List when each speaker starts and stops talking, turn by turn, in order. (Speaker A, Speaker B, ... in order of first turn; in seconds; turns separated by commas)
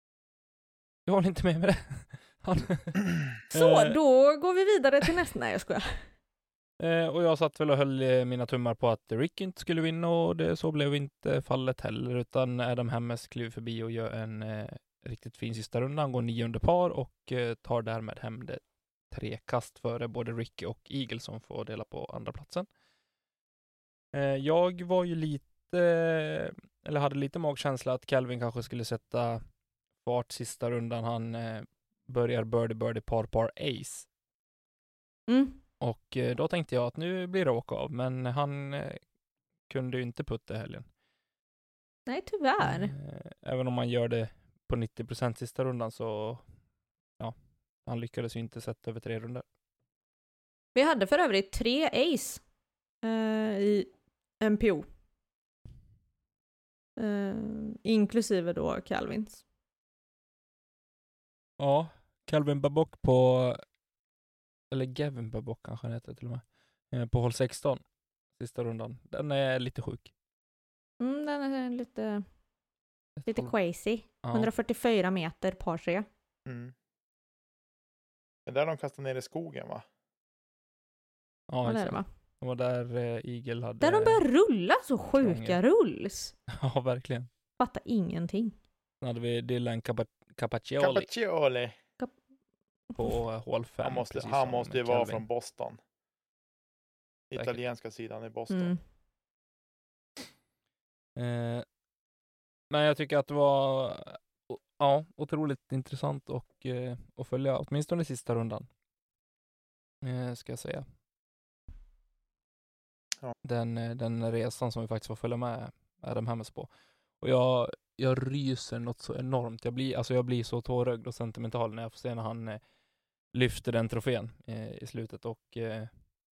Speaker A: 1.1-4.0, Speaker B: 3.5-6.0, Speaker A: 6.8-22.7, Speaker A: 24.1-29.4, Speaker A: 30.0-34.1, Speaker B: 35.3-35.6, Speaker A: 35.8-39.0, Speaker A: 39.7-40.9, Speaker B: 42.1-42.9, Speaker A: 42.6-46.5, Speaker A: 47.2-49.4, Speaker B: 50.8-52.4, Speaker B: 53.0-53.9, Speaker B: 54.4-54.9, Speaker B: 57.0-59.4, Speaker A: 61.6-63.6, Speaker A: 64.7-67.8, Speaker A: 68.4-70.1, Speaker B: 71.0-72.2, Speaker A: 73.2-73.5, Speaker B: 73.3-76.1, Speaker A: 74.2-74.5, Speaker C: 76.5-76.7, Speaker C: 78.5-79.8, Speaker A: 81.5-84.2, Speaker B: 81.6-82.1, Speaker B: 83.8-86.3, Speaker A: 85.2-85.6, Speaker A: 86.5-87.3, Speaker B: 87.6-88.5, Speaker A: 89.0-91.1, Speaker C: 90.8-91.8, Speaker A: 93.0-95.2, Speaker C: 93.8-95.8, Speaker C: 97.3-98.7, Speaker B: 98.5-98.8, Speaker A: 101.2-101.7, Speaker A: 102.7-108.7, Speaker A: 110.0-110.9, Speaker A: 113.4-116.7, Speaker A: 117.2-122.6, Speaker A: 123.3-125.9